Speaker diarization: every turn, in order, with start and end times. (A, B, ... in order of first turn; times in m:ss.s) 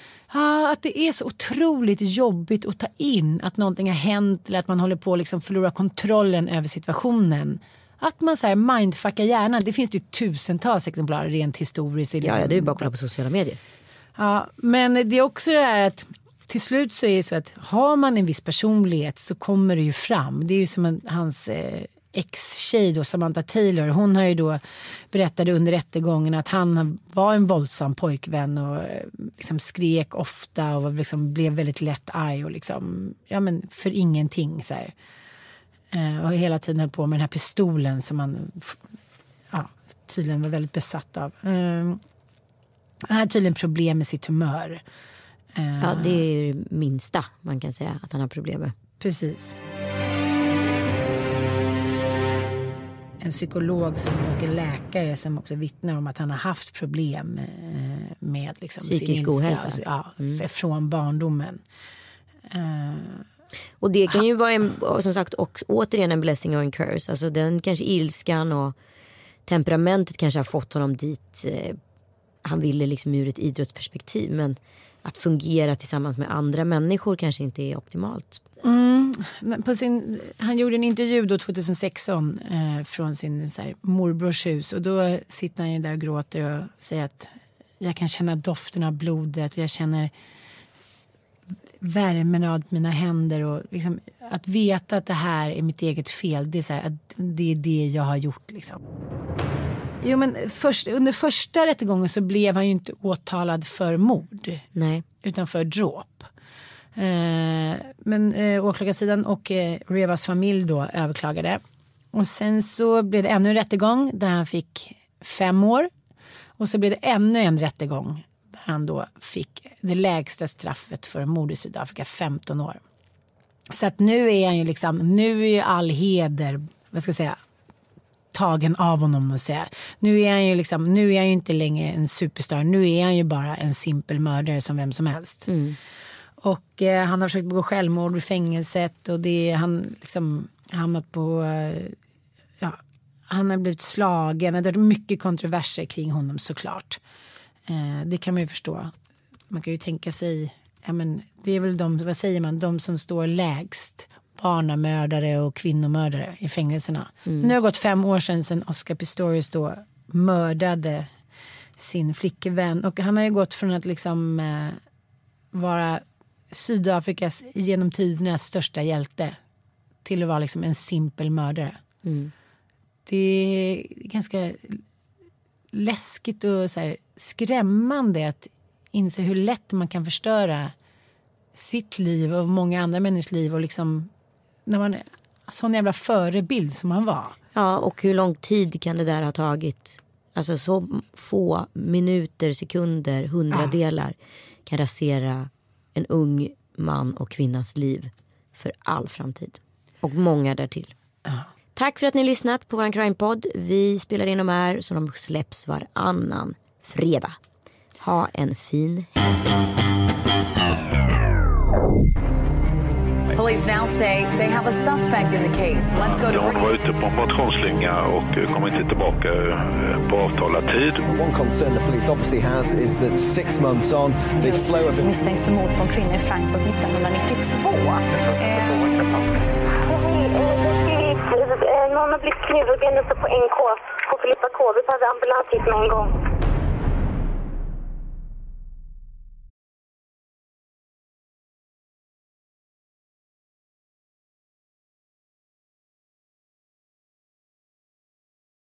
0:00.3-0:12.9 A
0:12.2-0:13.6 B
0:14.2-0:24.6 A
0:25.1-0:34.9 A
0:35.9-0:38.8 A
0:39.5-0:42.0 A
0:43.1-0:44.8 A
0:45.6-0:46.2 A
0:45.8-0:48.8 B
0:49.0-0:49.6 A
0:53.2-1:01.6 A
0:58.8-1:00.4 B
1:02.5-1:03.3 A
1:03.8-1:08.8 B
1:09.5-1:11.8 B
1:12.4-1:18.4 B
1:18.6-1:30.1 A
1:31.8-1:38.8 A
1:40.0-1:44.6 A
1:44.8-1:45.0 B
1:45.2-1:46.3 A
1:47.0-1:51.6 A
1:52.1-1:55.9 A
1:56.6-2:02.8 A
2:03.7-2:07.4 A
2:08.3-2:15.5 A
2:15.5-2:15.8 B
2:16.4-2:22.0 A
2:22.6-2:27.0 A
2:27.7-2:28.9 A
2:29.5-2:41.1 A
2:41.8-2:44.8 A
2:45.5-2:49.4 A
2:50.0-2:51.8 A
2:52.0-2:52.3 B
2:53.1-2:54.8 A
2:55.7-3:00.7 A
3:01.6-3:04.1 A
3:04.7-3:07.4 A
3:07.6-3:14.2 B
3:13.5-3:13.8 A
3:14.7-3:20.9 B
3:21.8-3:27.4 B
3:28.0-3:29.7 B
3:33.3-3:36.8 C
3:36.1-3:41.0 D
3:41.1-3:45.1 E
3:44.4-3:49.1 F
3:49.8-3:56.1 G